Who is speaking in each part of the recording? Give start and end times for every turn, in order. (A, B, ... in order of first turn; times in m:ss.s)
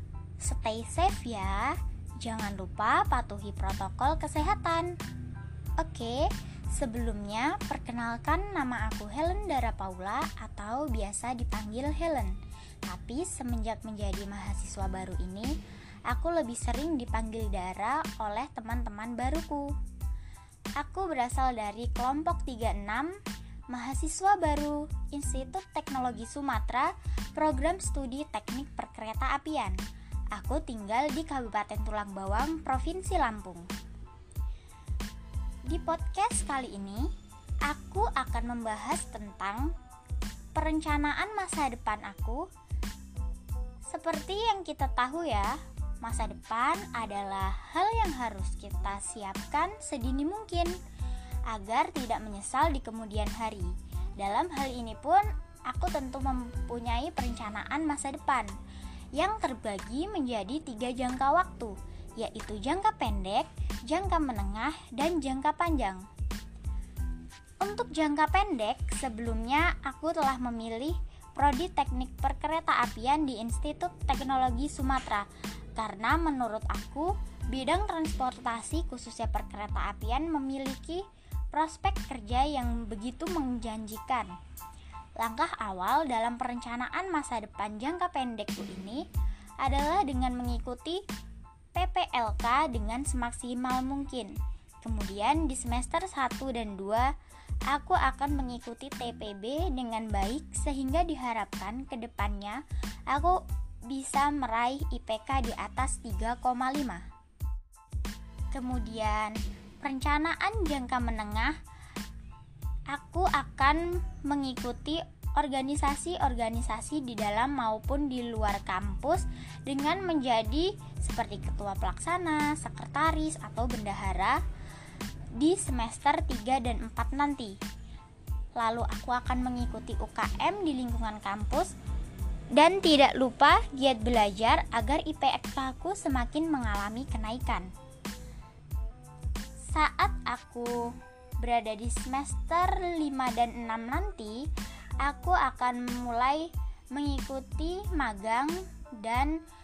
0:00.4-0:05.0 A
0:05.8-0:15.5 A
0:16.1-0:19.8 A
0:20.8-0:23.2 A
0:23.7-0:29.8 A
0:30.3-0:33.7 A
0:35.7-0:37.1 A
0:37.7-0:39.7 A
0:40.6-0:42.4 A
0:43.9-0:50.8 A
0:51.5-0:58.5 A
0:59.2-1:06.1 A
1:07.6-1:24.4 A
1:25.2-1:29.0 A
1:29.6-1:31.0 A
1:31.8-1:37.1 A
1:37.7-1:47.0 A
1:48.5-1:51.6 A
1:52.9-2:04.4 A
2:05.4-2:07.6 A
2:08.6-2:11.7 A
2:12.5-2:17.7 A
2:19.7-2:24.5 A
2:25.0-2:29.4 A